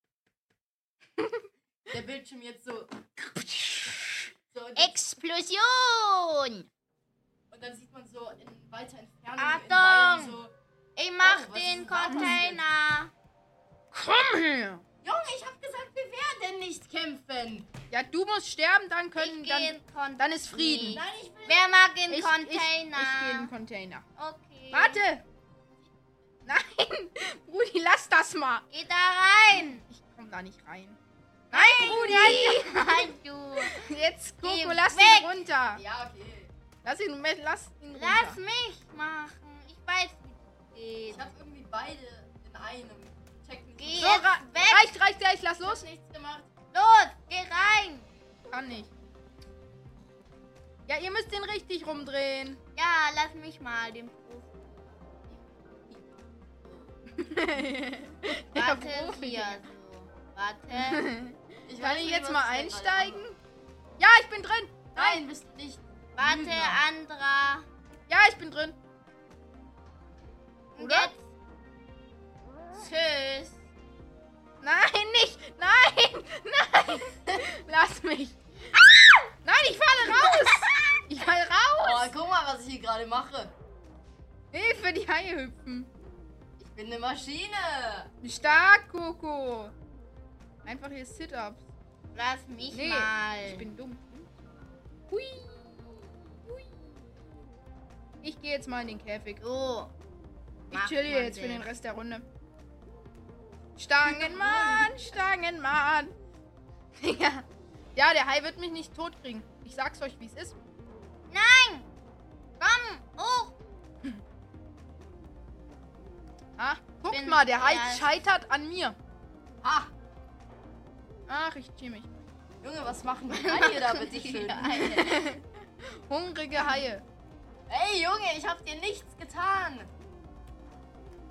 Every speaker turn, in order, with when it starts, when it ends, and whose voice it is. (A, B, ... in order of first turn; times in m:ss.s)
0:01.2-0:01.4 A
0:01.9-0:03.0 B
0:03.2-0:04.3 A
0:04.5-0:05.0 B
0:04.8-0:06.6 C
0:07.5-0:10.5 B
0:09.4-0:10.4 C
0:11.0-0:13.1 C
0:11.2-0:12.6 B
0:12.1-0:12.4 A
0:13.9-0:14.8 A
0:15.0-0:17.7 B
0:17.9-0:21.0 A
0:19.2-0:23.5 C
0:20.9-0:21.7 B
0:22.1-0:24.1 A
0:24.2-0:25.0 C
0:24.7-0:25.2 A
0:26.5-0:28.6 A
0:28.7-0:29.8 C
0:29.9-0:31.0 A
0:31.5-0:33.9 C
0:31.5-0:35.8 A
0:34.4-0:35.3 C
0:35.7-0:36.5 B
0:36.8-0:38.4 A
0:37.9-0:41.2 C
0:41.1-0:44.2 B
0:43.8-0:44.9 C
0:44.0-0:45.8 A
0:45.6-0:46.5 B
0:46.7-0:48.1 C
0:48.5-0:48.9 A
0:50.9-0:52.6 A
0:52.8-0:54.9 C
0:55.3-0:56.9 B
0:57.2-0:59.6 A
0:58.5-1:01.1 C
1:00.7-1:03.4 A
1:01.6-1:03.2 B
1:04.0-1:05.2 A
1:05.0-1:06.8 B
1:06.2-1:07.7 C
1:08.1-1:08.8 A
1:10.8-1:11.2 C
1:10.8-1:11.1 A
1:12.7-1:13.5 C
1:14.6-1:22.1 A
1:20.1-1:20.8 C
1:21.8-1:23.5 B
1:24.5-1:25.9 A
1:26.6-1:28.1 B
1:28.2-1:29.7 A
1:30.6-1:31.6 A
1:32.1-1:33.7 C
1:32.7-1:34.0 A
1:35.1-1:36.8 A
1:38.2-1:39.4 A
1:39.4-1:39.9 C
1:40.7-1:41.7 C
1:40.7-1:42.2 A
1:43.8-1:46.1 A
1:44.0-1:45.0 B
1:47.0-1:50.6 A
1:51.3-1:51.9 C
1:52.6-1:53.5 C
1:56.6-1:59.0 A
1:57.1-1:58.2 C
1:59.6-1:59.9 B
2:01.3-2:02.1 A
2:02.6-2:05.1 B
2:03.3-2:05.2 C
2:04.9-2:07.0 A
2:07.7-2:09.9 B